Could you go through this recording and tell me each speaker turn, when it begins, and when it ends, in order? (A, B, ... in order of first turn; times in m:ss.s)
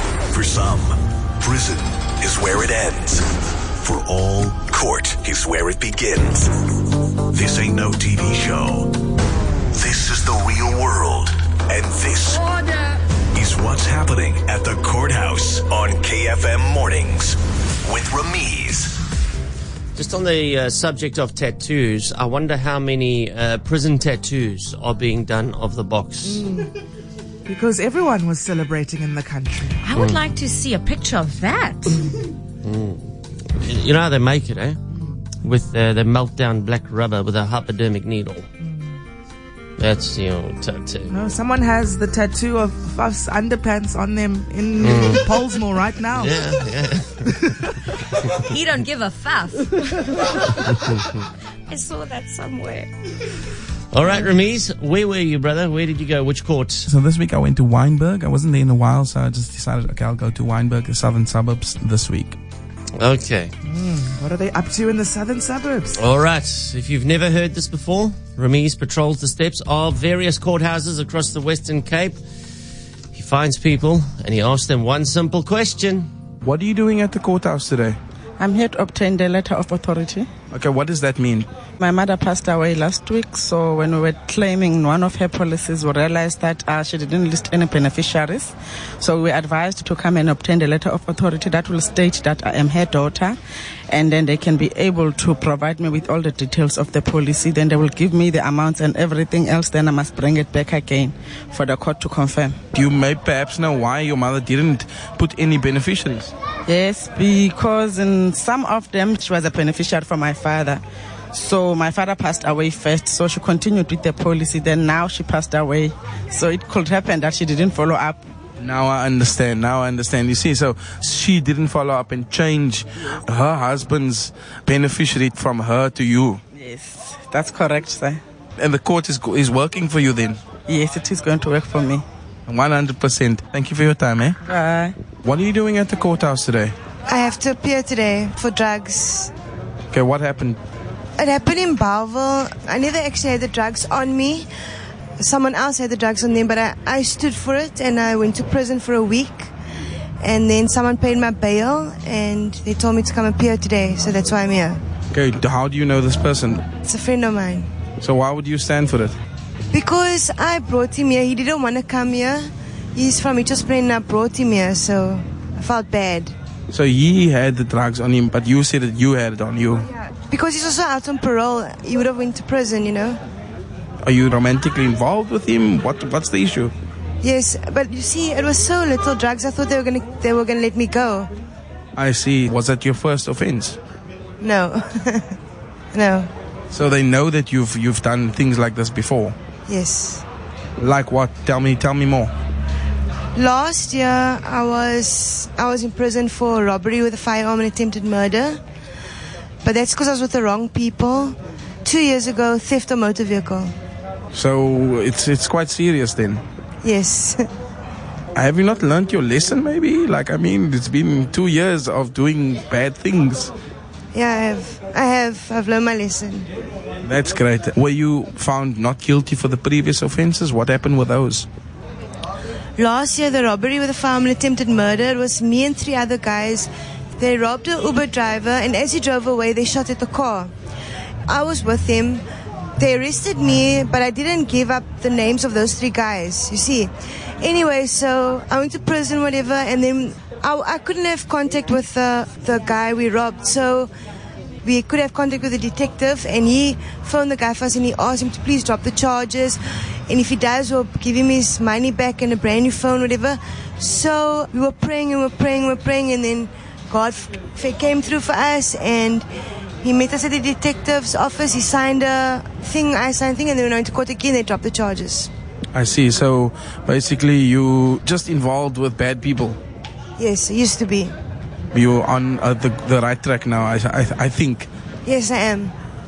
0:00.3-0:03.3 A
0:03.8-0:06.5 A
0:07.3-0:08.9 A
0:09.7-0:12.5 A
0:13.3-0:18.9 A
0:20.0-0:26.4 B
0:26.2-0:26.7 C
0:27.4-0:29.8 C
0:29.8-0:32.0 D
0:29.9-0:30.2 B
0:32.6-0:33.1 B
0:33.6-0:34.8 B
0:35.4-0:38.5 B
0:38.6-0:38.9 C
0:39.8-0:41.1 B
0:41.1-0:46.6 C
0:44.8-0:45.3 B
0:46.1-0:47.5 B
0:48.4-0:50.0 D
0:51.7-0:52.9 D
0:53.9-0:56.8 B
0:56.9-1:02.4 E
1:03.0-1:03.5 B
1:03.6-1:06.0 C
1:06.0-1:12.2 B
1:13.1-1:16.1 B
1:16.4-1:18.0 E
1:18.4-1:20.3 F
1:20.5-1:21.5 E
1:21.8-1:33.4 F
1:33.9-1:42.6 F
1:42.7-1:46.3 E
1:46.7-1:58.2 F
1:58.6-2:06.4 E
2:06.5-2:08.2 F
2:08.6-2:10.4 E
2:10.7-2:12.0 F
2:12.5-2:14.4 E
2:14.4-2:15.0 F
2:15.2-2:16.7 E
2:17.1-2:19.3 G
2:19.9-2:20.6 E
2:21.2-2:24.5 G
2:25.2-2:29.5 G
2:30.2-2:34.8 G
2:35.1-2:36.6 E
2:36.8-2:37.7 G
2:38.0-2:39.2 E
2:39.7-2:46.3 G
2:46.7-2:49.8 E
2:49.9-2:53.2 G
2:54.0-2:56.7 E
2:57.2-3:01.3 G
3:02.0-3:03.8 E
3:04.4-3:05.3 G
3:05.9-3:06.3 G
3:06.7-3:09.4 E
3:09.7-3:10.2 G
3:10.8-3:12.3 E
3:13.4-3:18.6 G
3:19.6-3:23.7 G
3:24.3-3:26.4 E
3:26.8-3:27.4 G
3:28.3-3:33.5 E
3:34.1-3:36.5 G
3:37.0-3:41.5 E
3:42.8-3:50.5 G
3:51.3-3:52.2 G
3:52.8-4:03.9 G
4:04.6-4:19.2 G
4:19.8-4:25.3 G
4:25.7-4:29.6 E
4:30.2-4:31.1 G
4:31.7-4:34.7 E
4:35.0-4:35.7 G